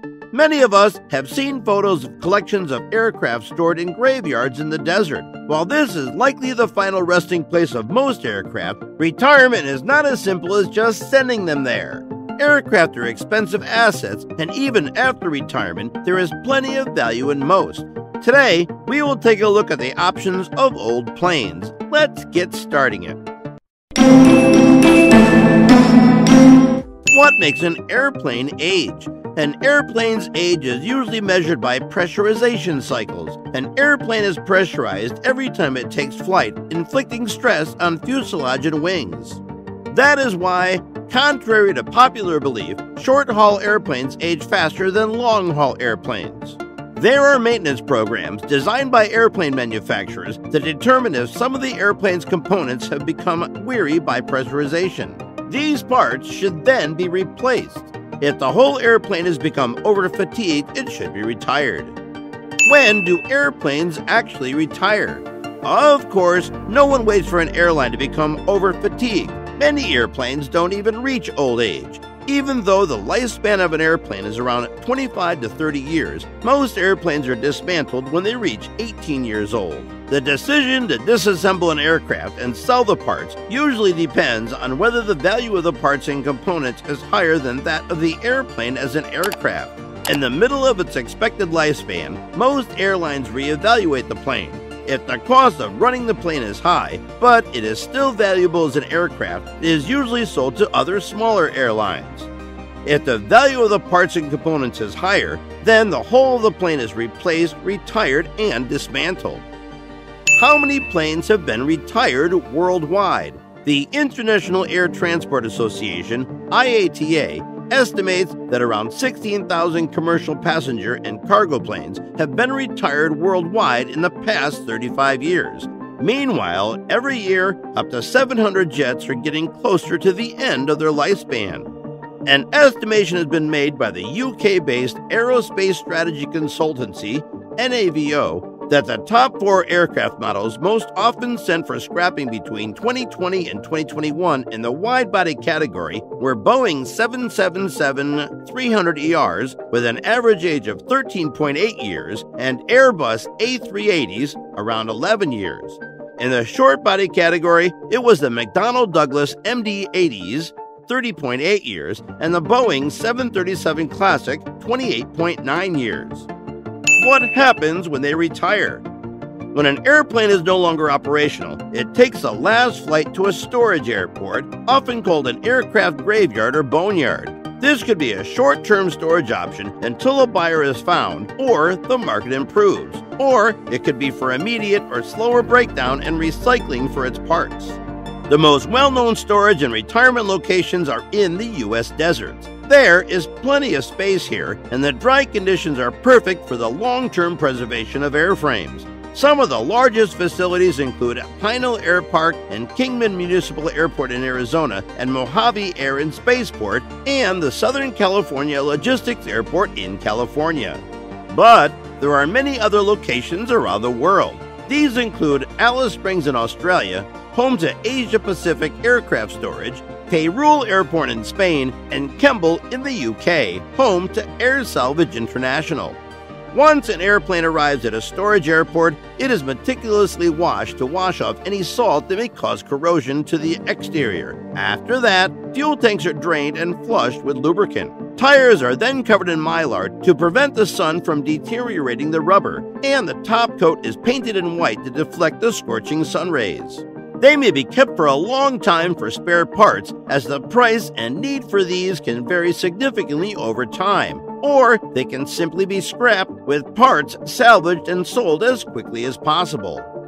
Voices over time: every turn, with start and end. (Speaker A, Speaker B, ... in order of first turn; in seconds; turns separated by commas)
Speaker A: 0.3-23.2, Speaker A: 27.1-62.0, Speaker A: 62.6-102.3, Speaker A: 102.8-109.5, Speaker A: 110.3-131.7, Speaker A: 132.2-166.3, Speaker A: 167.0-168.8, Speaker A: 169.5-226.0, Speaker A: 226.5-259.9